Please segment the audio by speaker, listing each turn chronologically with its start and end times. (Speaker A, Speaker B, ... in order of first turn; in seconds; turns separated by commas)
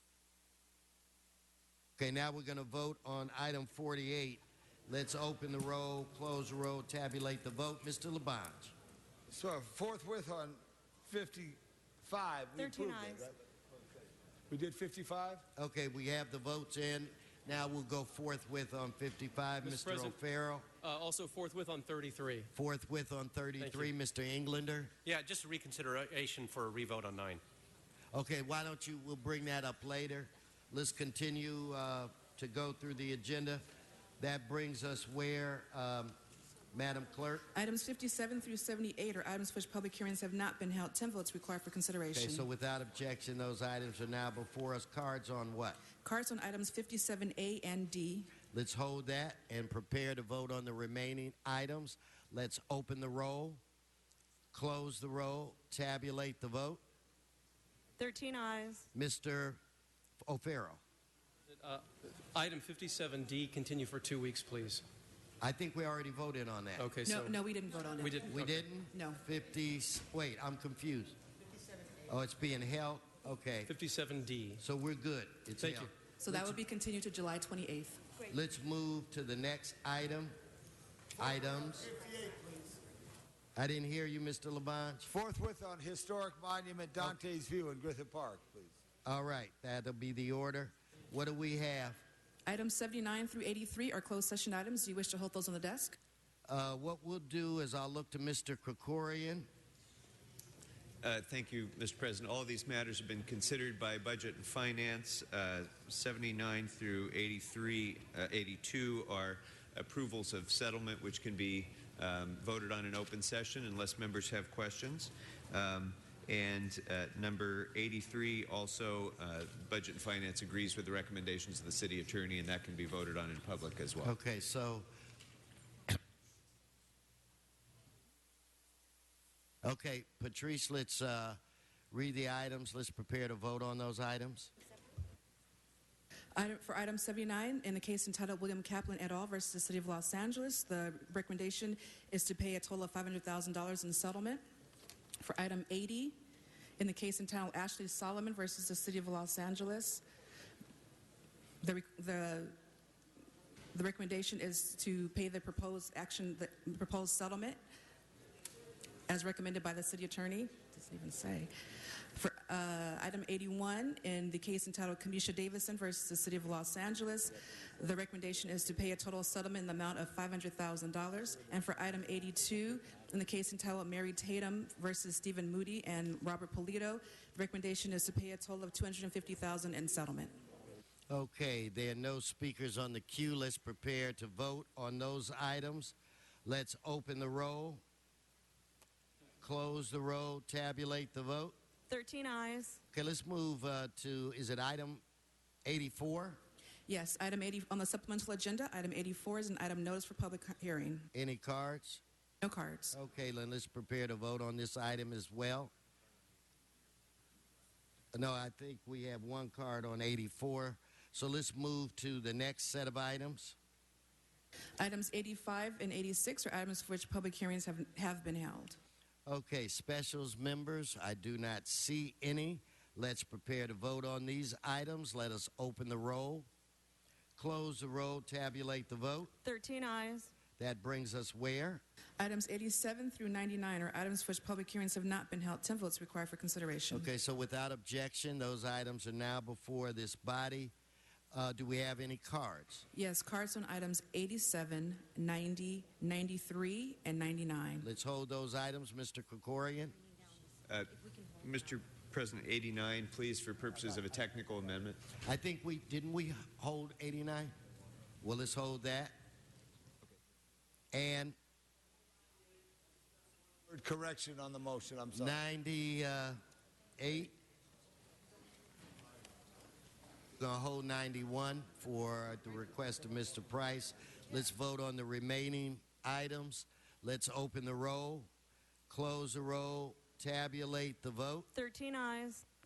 Speaker A: 2.0-8.7, Speaker B: 9.3-13.3, Speaker C: 12.6-13.2, Speaker B: 14.5-15.4, Speaker A: 15.6-20.6, Speaker D: 19.6-20.2, Speaker D: 20.8-22.5, Speaker A: 22.5-24.9, Speaker D: 23.6-23.9, Speaker D: 25.1-25.4, Speaker E: 25.1-27.4, Speaker D: 26.4-26.9, Speaker A: 28.1-33.6, Speaker A: 34.2-36.1, Speaker A: 36.7-37.5, Speaker F: 37.5-42.5, Speaker A: 42.1-45.8, Speaker F: 46.0-48.3, Speaker A: 48.5-53.6, Speaker A: 54.5-56.8, Speaker C: 58.0-58.8, Speaker A: 58.9-59.6, Speaker A: 60.2-60.8, Speaker D: 61.5-64.8, Speaker A: 65.4-66.9, Speaker D: 66.8-67.3, Speaker F: 67.0-68.3, Speaker D: 68.0-68.7, Speaker A: 68.2-71.2, Speaker F: 68.9-69.2, Speaker A: 72.1-73.7, Speaker D: 73.7-74.6, Speaker A: 74.6-75.9, Speaker D: 75.6-76.5, Speaker F: 76.2-78.0, Speaker A: 78.3-80.3, Speaker A: 81.2-81.9, Speaker B: 81.9-82.7, Speaker A: 83.5-85.1, Speaker B: 85.1-88.8, Speaker A: 89.0-92.0, Speaker F: 92.5-96.0, Speaker A: 96.5-99.5, Speaker G: 101.0-124.1, Speaker A: 124.0-124.9, Speaker A: 129.6-131.4, Speaker A: 131.9-134.5, Speaker F: 136.3-144.4, Speaker F: 145.2-146.2, Speaker F: 146.8-150.0, Speaker F: 151.6-152.6, Speaker F: 153.7-157.6, Speaker F: 159.1-161.5, Speaker F: 162.1-180.3, Speaker A: 181.1-187.8, Speaker A: 189.4-191.5, Speaker C: 191.9-192.8, Speaker A: 192.9-195.0, Speaker A: 195.6-196.4, Speaker F: 196.9-201.1, Speaker A: 201.1-202.0, Speaker F: 202.4-202.9, Speaker A: 202.9-205.7, Speaker A: 208.1-213.6, Speaker F: 214.8-218.8, Speaker A: 219.3-226.5, Speaker A: 227.4-229.3, Speaker C: 229.4-230.3, Speaker A: 230.6-231.8, Speaker F: 232.2-237.1, Speaker A: 236.9-240.7, Speaker A: 241.3-242.8, Speaker F: 242.9-247.9, Speaker A: 247.8-250.0, Speaker G: 250.7-255.0, Speaker A: 255.2-257.5, Speaker A: 258.2-259.1, Speaker A: 260.9-261.4, Speaker B: 263.7-265.4, Speaker A: 265.1-266.4, Speaker A: 267.0-267.3, Speaker A: 270.4-278.3, Speaker A: 278.9-281.5, Speaker C: 281.5-282.4